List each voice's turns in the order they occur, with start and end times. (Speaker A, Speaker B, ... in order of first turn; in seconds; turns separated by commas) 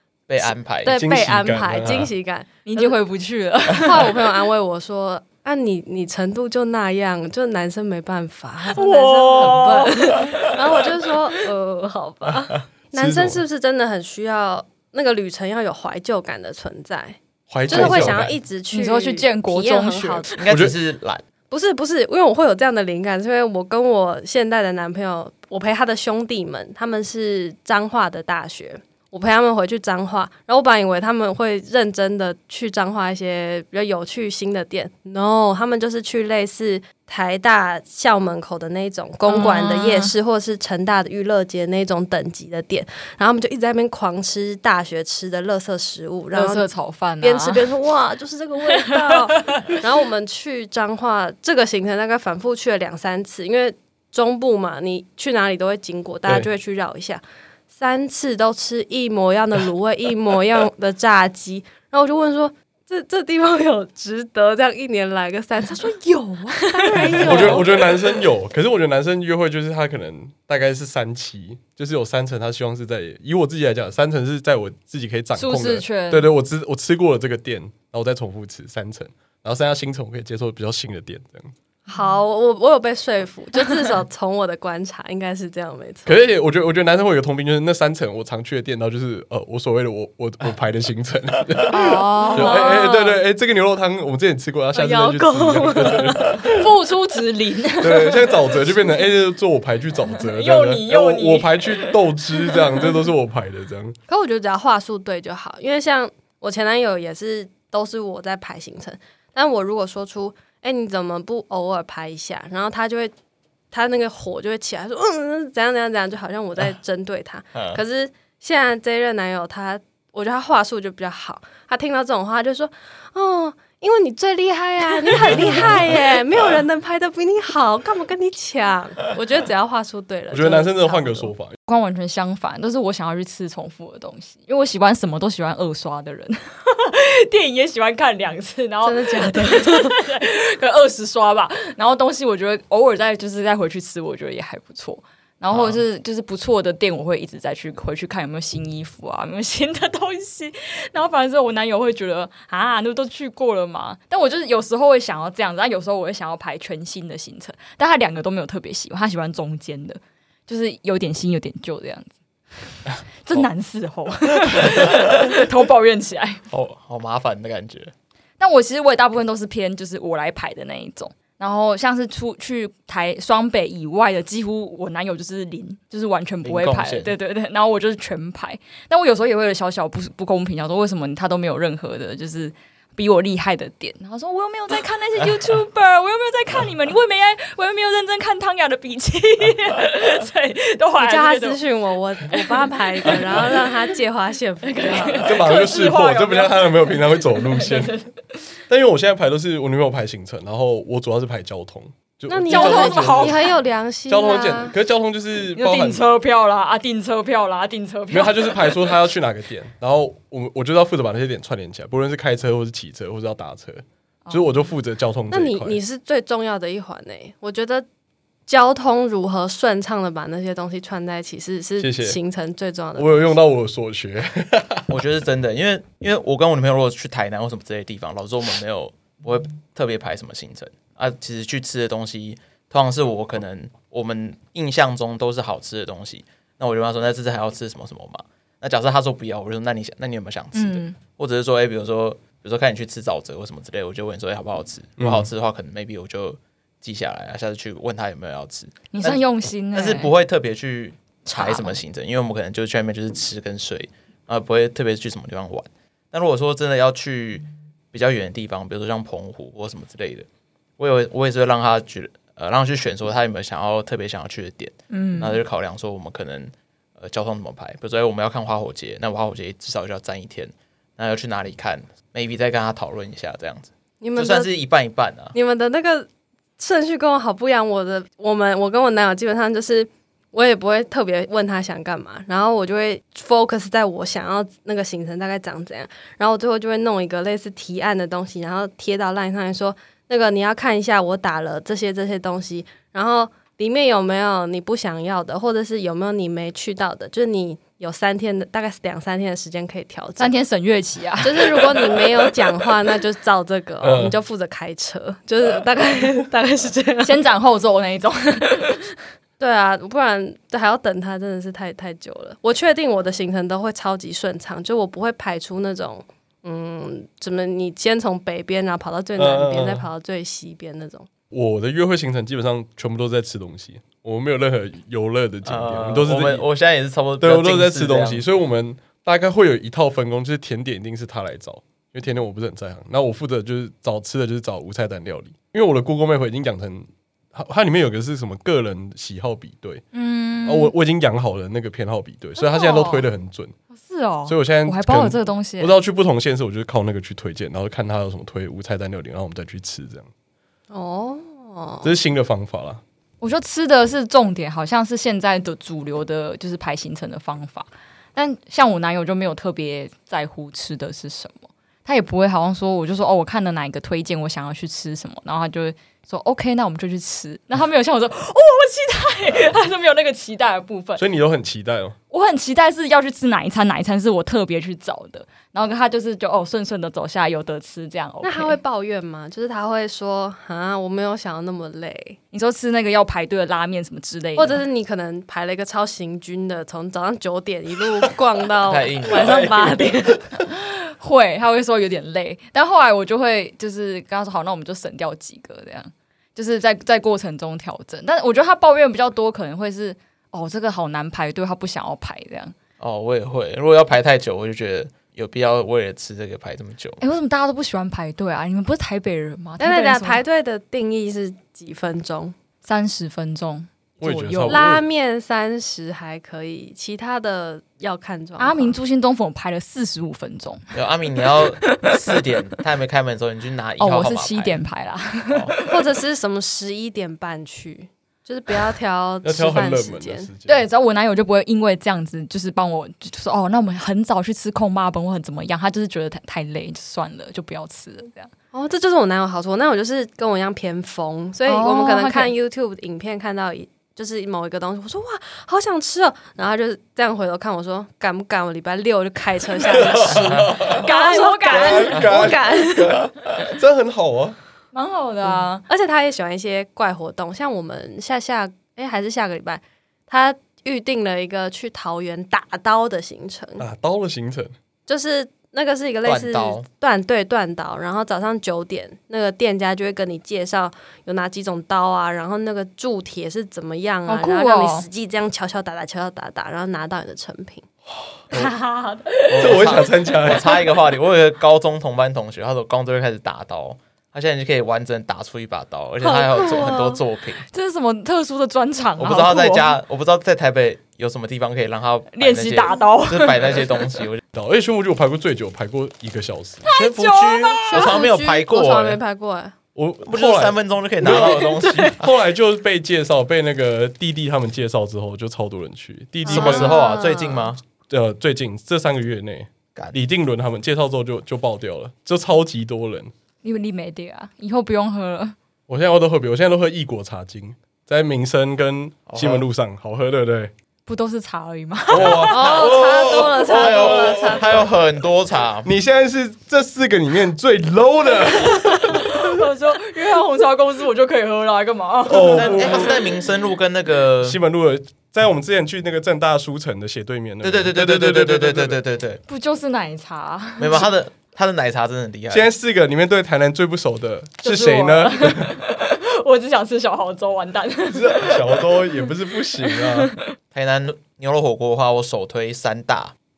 Speaker A: 0.3-1.0, Speaker B: 0.4-2.9, Speaker C: 0.9-2.1, Speaker D: 2.6-4.3, Speaker B: 3.8-20.3, Speaker D: 8.7-10.5, Speaker C: 12.9-13.4, Speaker C: 17.5-18.3, Speaker D: 17.7-18.1, Speaker D: 18.7-20.4, Speaker A: 20.3-21.2, Speaker C: 20.5-20.7, Speaker B: 21.5-46.6, Speaker D: 39.3-40.1, Speaker D: 46.3-47.7, Speaker B: 47.2-67.8, Speaker D: 48.8-49.8, Speaker D: 66.7-67.9, Speaker C: 67.1-81.5, Speaker D: 75.3-76.3, Speaker B: 81.9-86.2, Speaker C: 86.0-96.7, Speaker D: 91.7-92.7, Speaker B: 92.3-93.2, Speaker B: 94.7-96.5, Speaker D: 96.4-98.5, Speaker C: 97.8-104.0, Speaker D: 100.2-102.9, Speaker B: 104.1-113.1, Speaker B: 113.7-131.3, Speaker A: 117.5-117.8, Speaker C: 125.3-125.8, Speaker C: 130.3-131.6, Speaker D: 131.7-166.4, Speaker B: 138.8-140.0, Speaker A: 145.5-145.8, Speaker A: 164.5-165.3, Speaker A: 166.5-167.9, Speaker D: 168.4-191.6, Speaker A: 176.4-177.1, Speaker B: 191.0-195.3, Speaker D: 192.3-193.6, Speaker D: 194.6-198.2, Speaker C: 195.2-197.9, Speaker C: 198.7-203.4, Speaker B: 202.3-204.7, Speaker D: 202.5-203.5, Speaker C: 204.1-206.0, Speaker D: 205.5-208.9, Speaker C: 208.1-215.8, Speaker D: 214.2-214.7, Speaker B: 215.3-217.8, Speaker B: 218.5-223.3, Speaker C: 221.8-222.2, Speaker C: 222.9-224.9, Speaker A: 224.9-249.2, Speaker D: 240.5-241.0, Speaker C: 245.0-245.3, Speaker D: 248.9-250.1, Speaker A: 249.7-260.3, Speaker D: 251.2-251.8, Speaker A: 260.8-275.3, Speaker D: 264.9-265.4, Speaker B: 274.0-274.5, Speaker B: 275.3-300.3, Speaker D: 300.2-302.3, Speaker B: 301.2-307.2, Speaker C: 303.8-304.1, Speaker D: 307.0-308.9, Speaker B: 309.4-321.1, Speaker C: 319.2-319.9, Speaker C: 321.3-326.4, Speaker A: 325.4-328.2, Speaker C: 327.2-339.8, Speaker D: 339.9-340.7, Speaker C: 340.4-343.5, Speaker D: 342.4-343.1, Speaker D: 343.7-345.8, Speaker C: 344.2-350.1, Speaker B: 350.7-351.9, Speaker C: 351.8-352.8, Speaker D: 353.2-371.0, Speaker C: 371.0-371.9, Speaker D: 372.1-378.6, Speaker B: 378.2-382.2, Speaker D: 382.3-384.6, Speaker B: 384.4-390.2, Speaker A: 388.7-389.7, Speaker D: 390.4-402.5, Speaker A: 402.8-407.0, Speaker D: 407.0-410.2, Speaker B: 409.6-412.3, Speaker D: 412.6-414.7, Speaker C: 414.0-414.8, Speaker B: 414.5-418.8, Speaker D: 418.4-420.6, Speaker A: 420.7-424.6, Speaker D: 421.2-421.9, Speaker D: 423.8-425.8, Speaker B: 425.6-430.3, Speaker C: 429.2-430.6, Speaker D: 430.5-438.3, Speaker B: 438.5-453.1, Speaker D: 441.5-442.3, Speaker C: 449.7-450.9, Speaker D: 450.6-452.2, Speaker C: 451.4-454.4, Speaker D: 454.7-455.6, Speaker B: 455.6-463.6, Speaker C: 463.6-464.5, Speaker B: 464.9-477.6, Speaker A: 466.0-466.6, Speaker D: 474.1-474.9, Speaker D: 478.3-480.7, Speaker A: 479.3-487.4, Speaker C: 479.4-480.5, Speaker B: 486.0-487.0, Speaker D: 487.5-489.8, Speaker A: 489.0-494.2, Speaker D: 492.1-493.9, Speaker C: 494.3-496.6, Speaker D: 496.6-498.0, Speaker A: 496.7-499.0, Speaker B: 497.7-499.5, Speaker C: 499.7-506.8, Speaker A: 500.1-502.1, Speaker D: 501.1-501.8, Speaker B: 506.2-507.5, Speaker A: 506.3-507.6, Speaker C: 507.9-513.1, Speaker D: 513.4-515.3, Speaker C: 515.7-520.5, Speaker A: 519.1-519.5, Speaker D: 520.9-522.4, Speaker C: 521.9-524.6, Speaker A: 521.9-525.7, Speaker B: 522.3-524.6, Speaker C: 525.6-529.2, Speaker D: 528.3-533.0, Speaker C: 532.0-533.0, Speaker A: 532.3-534.4, Speaker C: 534.2-538.8, Speaker A: 537.4-539.2, Speaker D: 539.3-540.9, Speaker A: 540.6-542.5, Speaker C: 542.3-545.5, Speaker D: 544.4-550.3, Speaker C: 547.9-550.1, Speaker A: 550.5-553.1